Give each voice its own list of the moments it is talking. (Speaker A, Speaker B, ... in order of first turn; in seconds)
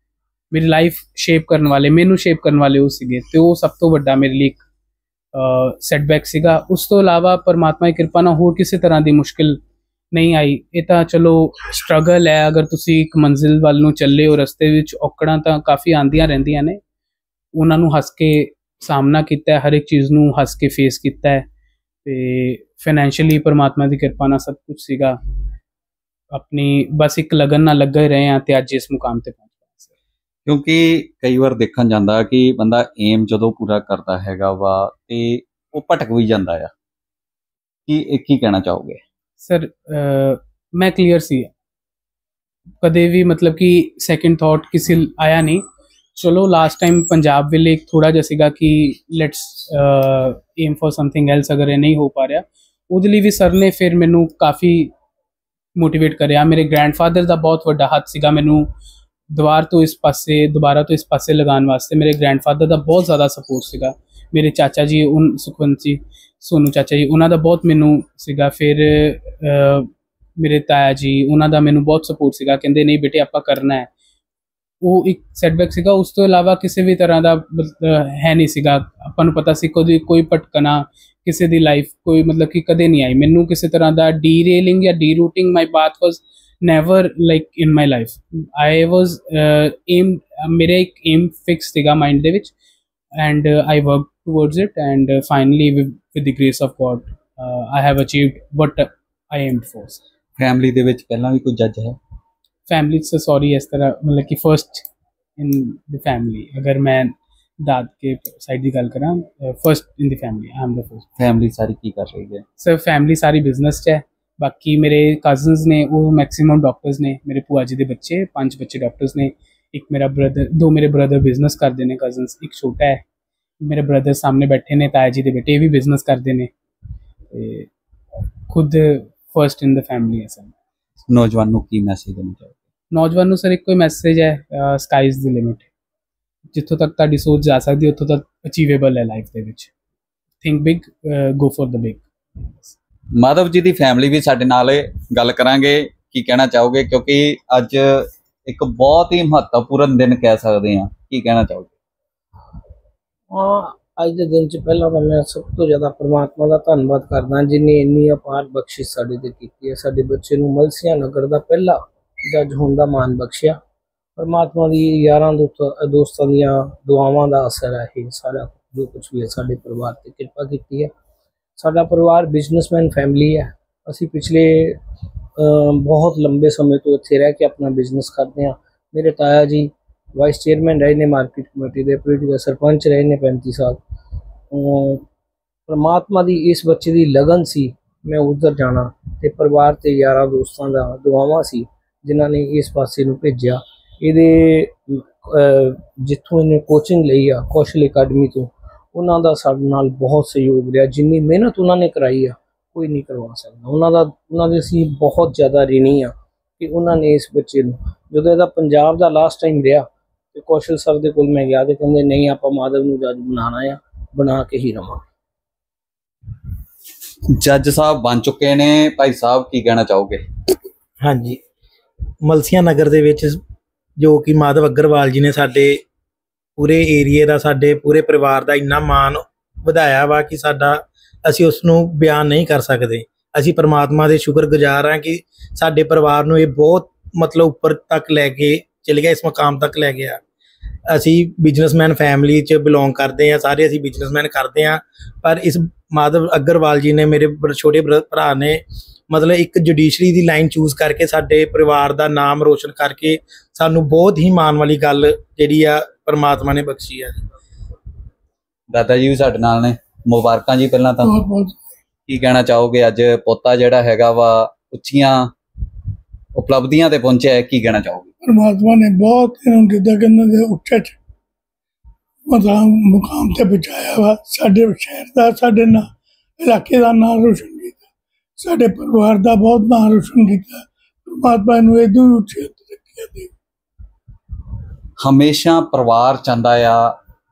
Speaker A: 0.5-4.6, 5.3-9.6, 10.1-16.8, 17.5-21.4, 22.0-25.2, 26.3-29.9, 39.4-41.5, 42.8-45.6, 46.1-54.9, 55.8-58.7, 59.3-73.9, 74.8-92.5, 93.2-100.0, 102.7-104.8, 105.4-111.1, 112.6-123.0, 123.6-126.5, 127.3-127.7, 128.5-130.5, 132.9-135.7, 136.5-139.7, 140.4-142.7
Speaker B: 30.4-36.7, 37.9-39.0, 100.4-102.0, 111.2-112.4, 131.1-132.5, 143.2-151.7, 217.3-220.2, 258.7-261.1, 262.1-265.3, 266.3-268.1, 285.0-286.9
Speaker C: 153.3-163.6, 164.2-170.9, 171.6-174.8, 175.4-183.8, 184.5-185.0, 185.7-215.0
Speaker D: 221.0-221.4, 222.2-223.4, 224.0-225.8, 226.6-240.2, 240.9-257.2
Speaker E: 261.0-261.6, 268.2-270.9, 272.2-277.9, 278.4-283.3